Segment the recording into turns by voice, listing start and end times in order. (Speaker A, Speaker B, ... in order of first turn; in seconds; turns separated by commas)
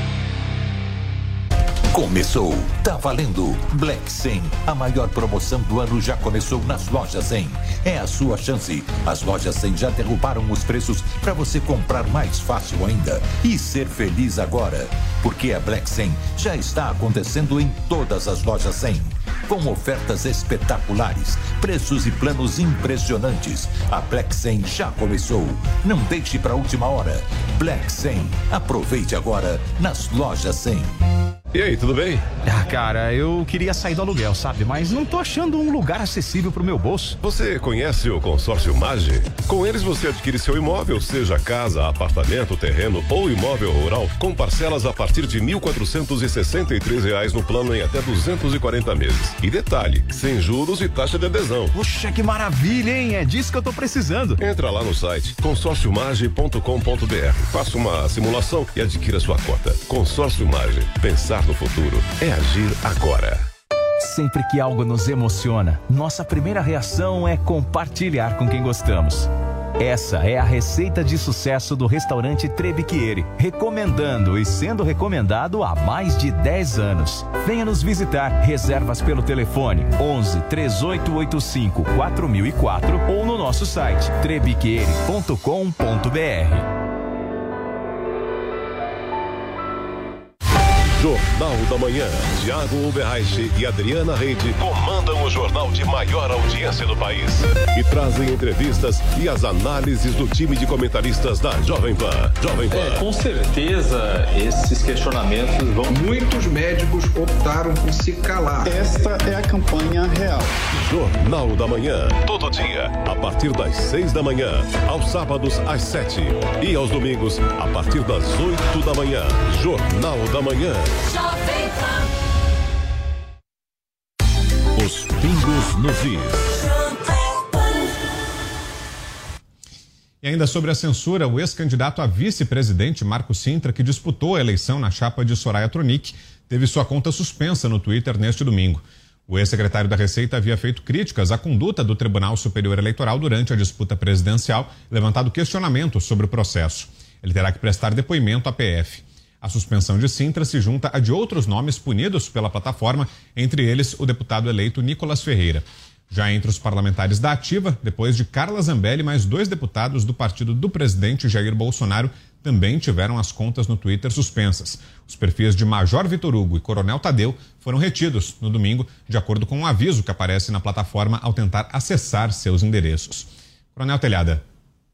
Speaker A: 1.9-30.9, Speaker B: 31.5-32.3, Speaker C: 32.4-37.2, Speaker B: 37.2-51.8, Speaker C: 51.7-54.4, Speaker B: 54.4-63.5, Speaker C: 64.0-86.7, Speaker B: 91.0-103.1, Speaker D: 102.8-105.7, Speaker E: 105.8-108.8, Speaker F: 108.6-110.5, Speaker B: 110.7-120.9, Speaker A: 124.8-125.3, Speaker C: 125.0-125.8, Speaker G: 130.2-174.4